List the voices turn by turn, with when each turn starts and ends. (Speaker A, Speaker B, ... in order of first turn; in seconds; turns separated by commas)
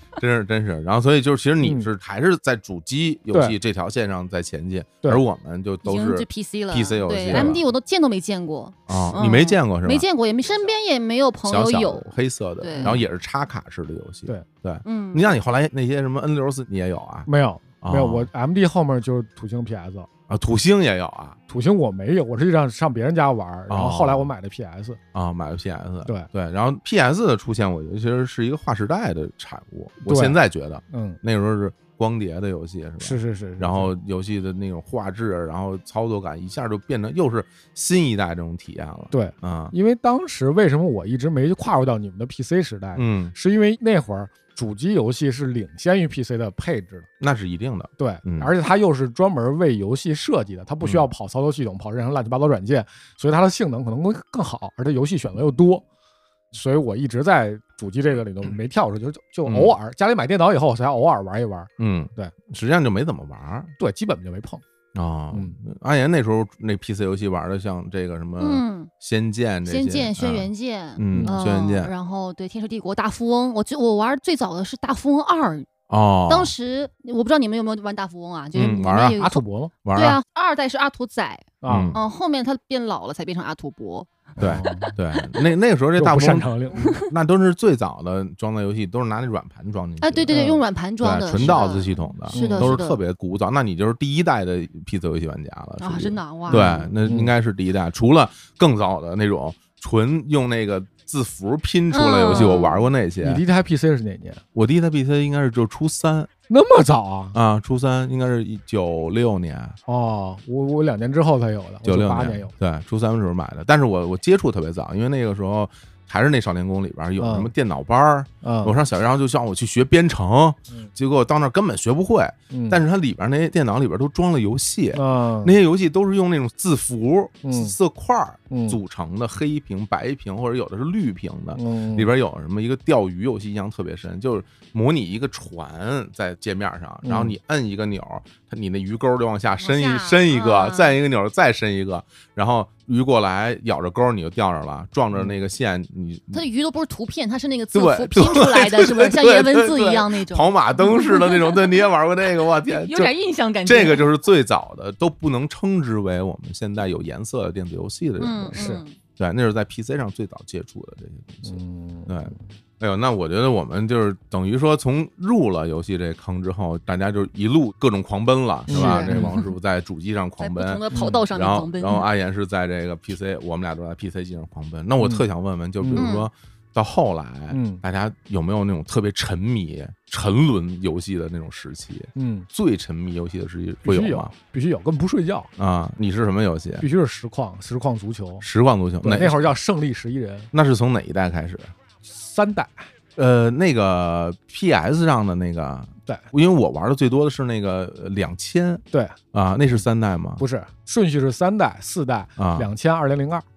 Speaker A: 0.2-7.6, Speaker B: 1.6-1.9, Speaker C: 5.8-13.0, Speaker B: 7.3-7.6, Speaker A: 8.9-10.1, Speaker A: 11.5-17.3, Speaker B: 12.8-13.1, Speaker C: 14.8-15.4, Speaker B: 17.3-20.1, Speaker A: 17.8-18.3, Speaker A: 20.3-21.4, Speaker B: 21.5-25.0, Speaker A: 23.7-24.3, Speaker A: 25.1-39.7, Speaker B: 30.1-30.4, Speaker B: 30.9-31.2, Speaker B: 33.0-33.9, Speaker B: 39.1-47.1, Speaker A: 43.0-43.4, Speaker A: 47.2-48.5, Speaker B: 48.0-55.8, Speaker B: 56.5-62.3, Speaker A: 59.5-59.7, Speaker A: 61.8-63.7, Speaker B: 63.8-64.6, Speaker A: 64.9-71.9, Speaker B: 65.3-65.6, Speaker C: 68.4-68.9, Speaker C: 69.7-75.7, Speaker B: 71.1-71.4, Speaker A: 75.9-76.5, Speaker C: 76.3-79.4, Speaker A: 78.5-79.2, Speaker B: 79.0-79.7, Speaker A: 79.8-80.2, Speaker C: 79.9-85.2, Speaker B: 81.6-82.0, Speaker A: 81.7-82.0, Speaker A: 84.4-90.3, Speaker B: 84.4-84.9, Speaker B: 86.0-87.0, Speaker C: 86.8-87.0, Speaker C: 90.0-93.0, Speaker B: 90.3-90.6, Speaker A: 91.0-103.4, Speaker B: 92.3-92.7, Speaker C: 95.8-96.9, Speaker B: 96.5-97.3, Speaker C: 101.9-102.9, Speaker B: 103.2-104.4, Speaker A: 104.5-106.3, Speaker B: 106.5-107.4, Speaker A: 107.3-109.8, Speaker B: 109.9-112.5, Speaker A: 111.8-146.4, Speaker B: 117.2-117.5, Speaker B: 118.4-118.7, Speaker B: 122.5-122.8, Speaker B: 125.0-125.5, Speaker B: 127.4-127.8, Speaker B: 128.5-128.8, Speaker B: 131.6-132.1, Speaker B: 137.0-137.3, Speaker C: 139.6-141.0, Speaker B: 145.1-145.4, Speaker C: 146.3-151.8, Speaker A: 147.7-153.1, Speaker C: 152.7-154.1, Speaker A: 153.7-184.3, Speaker C: 158.2-158.9, Speaker B: 158.5-158.8, Speaker B: 161.4-162.4, Speaker B: 168.7-169.3, Speaker C: 168.7-169.5, Speaker C: 170.4-172.1, Speaker B: 170.9-171.2, Speaker B: 175.8-176.1, Speaker C: 176.0-176.3, Speaker B: 177.5-177.8, Speaker B: 182.2-182.5, Speaker B: 183.8-185.5, Speaker A: 185.6-186.8, Speaker B: 186.8-188.4, Speaker A: 188.4-189.5, Speaker B: 189.0-190.5, Speaker A: 190.5-191.8, Speaker B: 192.0-192.9, Speaker A: 193.2-200.4, Speaker B: 198.9-199.2, Speaker B: 200.4-203.4, Speaker A: 202.4-202.7